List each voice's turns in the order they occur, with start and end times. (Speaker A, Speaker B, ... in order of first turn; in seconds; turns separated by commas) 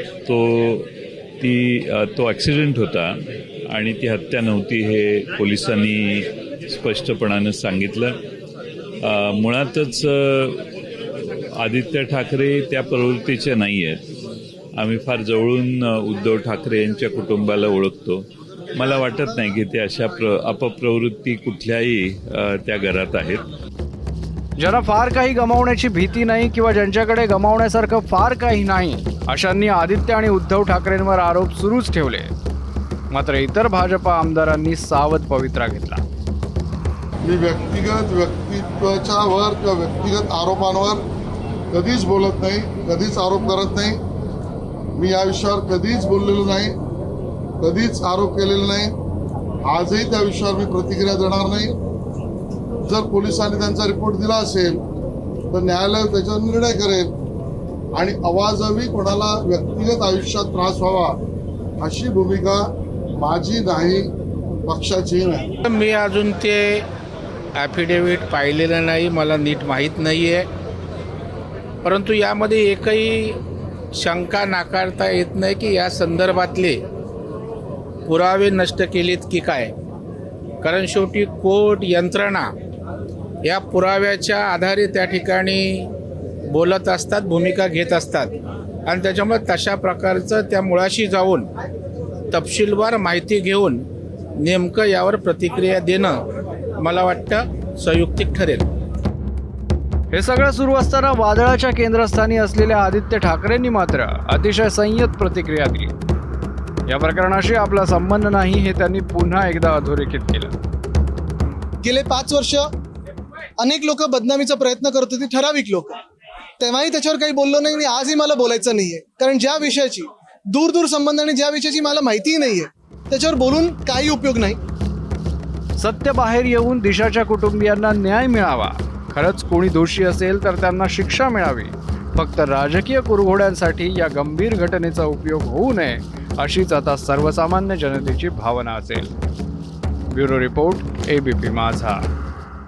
Speaker A: 0.2-3.1, Speaker A: 3.7-8.1, Speaker A: 9.0-10.6, Speaker A: 11.6-14.0, Speaker A: 14.8-18.2, Speaker A: 18.8-23.4, Speaker B: 24.6-32.3, Speaker B: 33.1-36.0, Speaker C: 37.2-41.0, Speaker C: 41.7-44.0, Speaker C: 45.0-46.7, Speaker C: 47.6-48.9, Speaker C: 49.6-51.7, Speaker C: 52.9-54.8, Speaker C: 55.5-57.1, Speaker C: 58.0-61.2, Speaker C: 61.8-62.6, Speaker C: 63.1-64.1, Speaker C: 64.7-65.5, Speaker D: 65.6-66.8, Speaker D: 67.6-70.5, Speaker D: 71.8-73.4, Speaker D: 74.0-76.8, Speaker D: 78.1-79.7, Speaker D: 80.6-82.5, Speaker D: 83.4-85.9, Speaker D: 86.5-88.3, Speaker D: 88.9-91.5, Speaker D: 92.3-93.8, Speaker D: 94.4-96.2, Speaker D: 96.8-98.7, Speaker B: 100.1-105.9, Speaker B: 106.9-110.5, Speaker E: 111.8-112.6, Speaker E: 113.6-116.0, Speaker E: 116.6-124.6, Speaker B: 125.8-139.1, Speaker B: 140.1-142.0